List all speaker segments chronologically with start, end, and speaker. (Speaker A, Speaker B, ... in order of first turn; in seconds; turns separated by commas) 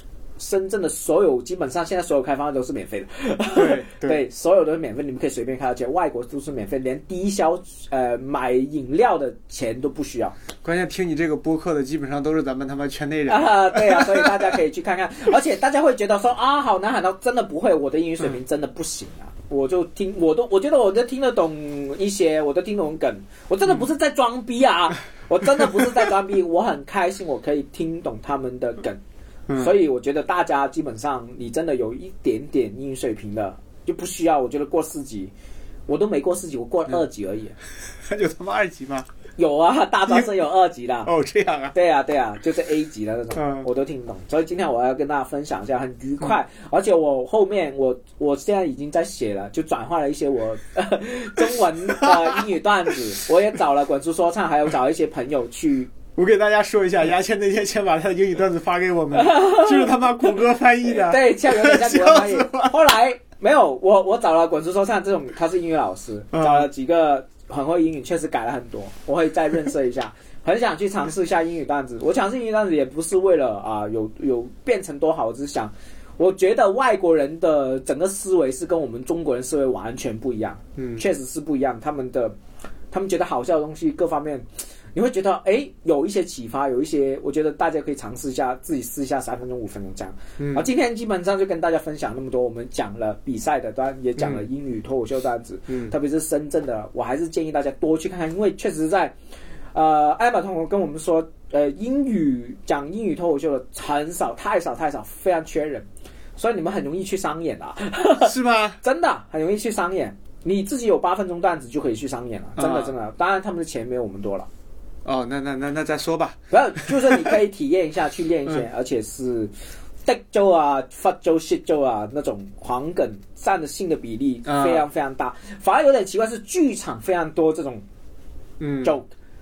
Speaker A: 0.4-10.3, Speaker B: 3.5-4.2, Speaker B: 10.6-14.5, Speaker A: 13.3-29.0, Speaker B: 29.5-29.7, Speaker A: 29.6-35.3, Speaker A: 35.9-37.5, Speaker B: 38.0-39.1, Speaker A: 39.4-41.1, Speaker B: 41.0-41.7, Speaker A: 41.7-55.9, Speaker B: 43.4-43.7, Speaker B: 51.9-52.3, Speaker B: 56.1-62.8, Speaker A: 59.1-60.0, Speaker A: 60.9-82.3, Speaker B: 66.3-66.7, Speaker B: 80.8-81.0, Speaker A: 82.9-99.2, Speaker B: 90.4-90.7, Speaker A: 99.7-105.8, Speaker A: 106.4-114.5, Speaker B: 108.2-108.8, Speaker B: 112.6-112.9, Speaker B: 115.0-117.3, Speaker A: 116.5-119.5, Speaker A: 120.0-127.8, Speaker B: 124.5-124.8, Speaker B: 128.6-128.9